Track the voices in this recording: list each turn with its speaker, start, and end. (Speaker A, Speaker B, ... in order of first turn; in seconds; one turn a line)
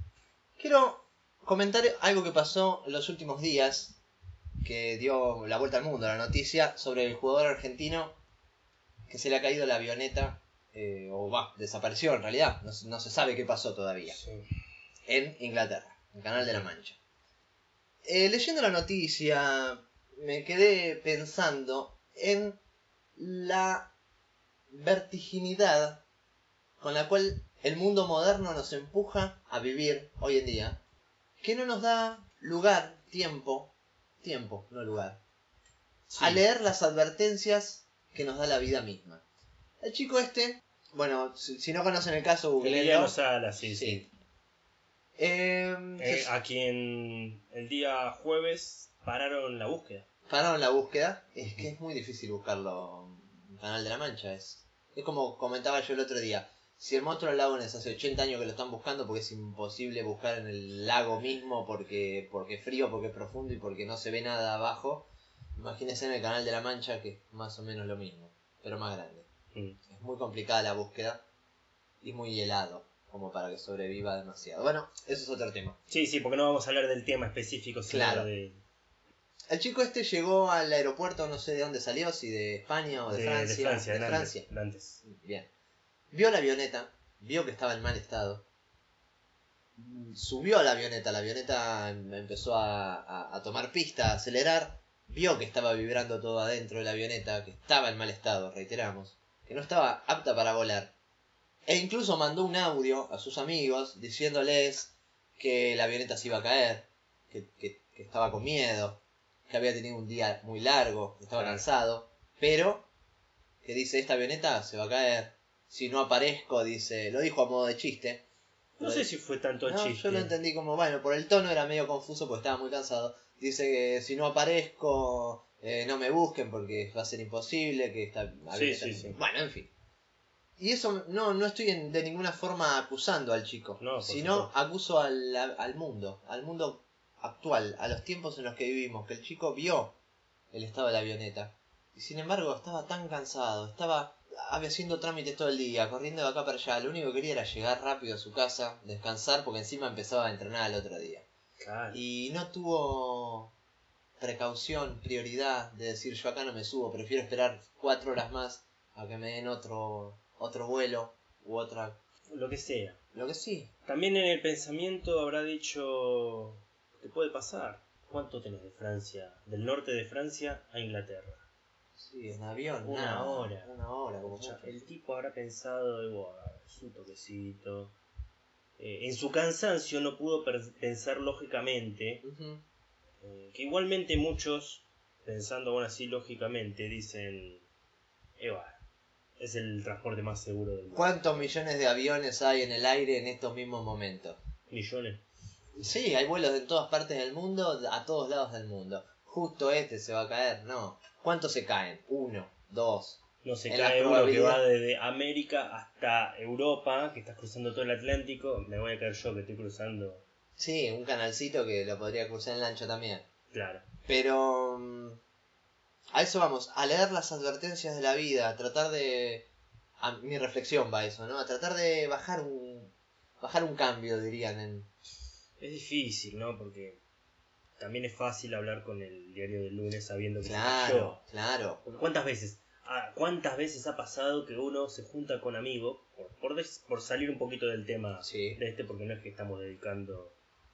Speaker A: 0.6-4.0
Speaker A: 4.6-8.2
Speaker A: 9.1-14.2
Speaker B: 14.1-14.4
Speaker A: 15.1-17.0
Speaker B: 16.4-16.7
Speaker A: 18.0-22.6
Speaker A: 23.2-23.9
Speaker A: 24.7-26.0
Speaker A: 26.8-30.8
Speaker A: 31.4-35.2
Speaker B: 36.1-36.4
Speaker A: 36.2-39.2
Speaker A: 39.8-44.1
Speaker B: 42.6-44.0
Speaker A: 45.2-46.3
Speaker B: 46.0-50.1
Speaker A: 50.3-69.3
Speaker B: 69.5-69.8
Speaker A: 69.9-71.2
Speaker A: 72.0-75.8
Speaker B: 75.9-78.6
Speaker A: 77.9-78.3
Speaker A: 79.5-84.5
Speaker B: 83.1-85.0
Speaker A: 85.0-85.5
Speaker A: 86.1-88.4
Speaker A: 89.8-100.9
Speaker A: 101.7-112.9
Speaker B: 111.4-111.6
Speaker A: 113.6-118.2
Speaker B: 118.8-120.3
Speaker A: 118.8-119.1
Speaker A: 119.7-129.7
Speaker B: 128.5-129.2
Speaker A: 130.6-139.9
Speaker B: 133.8-134.5
Speaker A: 140.5-151.3
Speaker B: 151.6-152.0
Speaker A: 151.9-153.5
Speaker A: 154.2-162.0
Speaker B: 162.3-163.0
Speaker A: 163.1-163.7
Speaker B: 163.9-171.4
Speaker A: 172.0-174.8
Speaker B: 172.8-177.9
Speaker B: 178.8-182.2
Speaker A: 182.2-182.6
Speaker B: 183.2-187.7
Speaker B: 188.4-188.8
Speaker B: 189.4-191.2
Speaker A: 190.9-194.4
Speaker B: 194.7-195.2
Speaker A: 195.8-204.6
Speaker B: 203.4-210.2
Speaker A: 210.6-213.2
Speaker B: 213.5-213.8
Speaker A: 214.1-215.2
Speaker A: 216.1-219.5
Speaker A: 220.0-224.9
Speaker B: 225.6-227.0
Speaker B: 227.8-231.2
Speaker A: 230.4-231.8
Speaker B: 231.8-240.4
Speaker A: 238.2-238.6